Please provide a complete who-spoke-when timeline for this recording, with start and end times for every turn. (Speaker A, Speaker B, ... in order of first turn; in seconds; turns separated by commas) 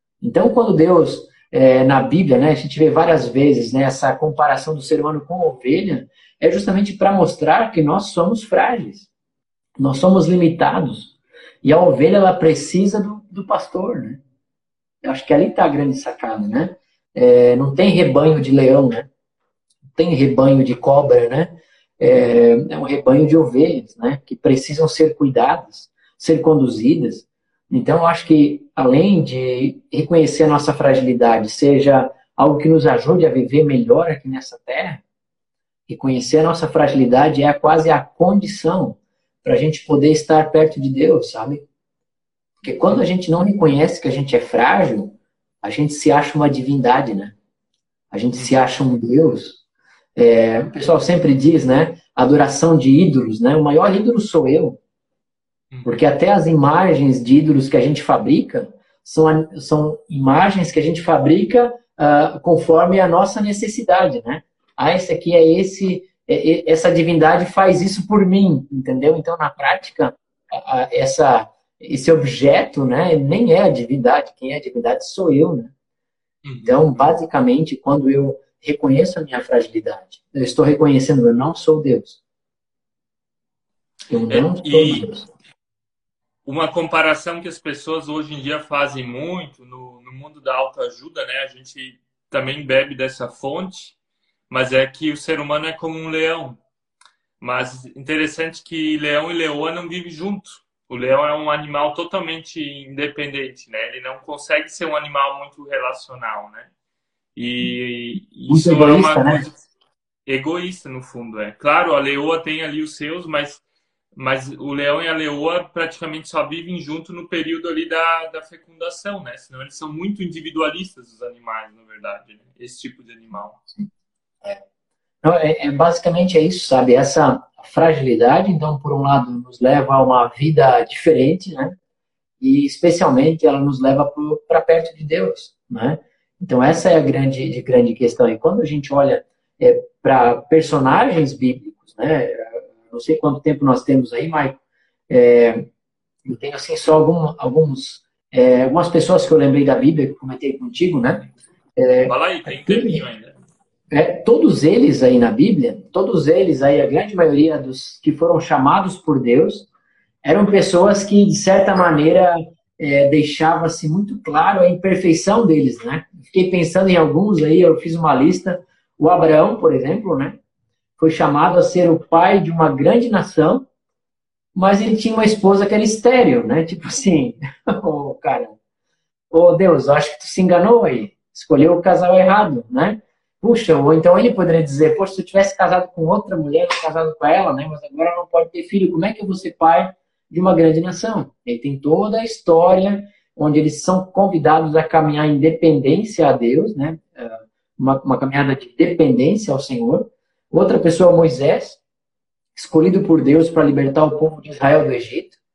Speaker A: 0.2-9.1, Speaker A: 9.8-14.2, Speaker A: 15.0-19.1, Speaker A: 19.9-35.0, Speaker A: 35.9-41.6, Speaker A: 42.6-47.4, Speaker A: 48.1-49.6, Speaker A: 50.2-54.8, Speaker B: 55.7-56.0, Speaker A: 55.9-75.7, Speaker B: 76.5-77.1, Speaker A: 76.6-82.2, Speaker A: 84.1-85.3, Speaker B: 84.3-85.1, Speaker B: 86.5-94.0, Speaker B: 94.5-96.6, Speaker B: 97.4-106.7, Speaker B: 107.4-109.6, Speaker A: 108.5-109.4, Speaker B: 110.3-113.6, Speaker B: 114.2-123.6, Speaker A: 125.2-131.8, Speaker A: 132.4-144.6, Speaker A: 145.1-145.7, Speaker A: 146.2-153.0, Speaker B: 152.0-153.4, Speaker A: 153.9-159.7, Speaker A: 160.2-170.4, Speaker A: 171.0-173.7, Speaker A: 174.6-178.6, Speaker A: 179.3-201.8, Speaker A: 202.6-205.3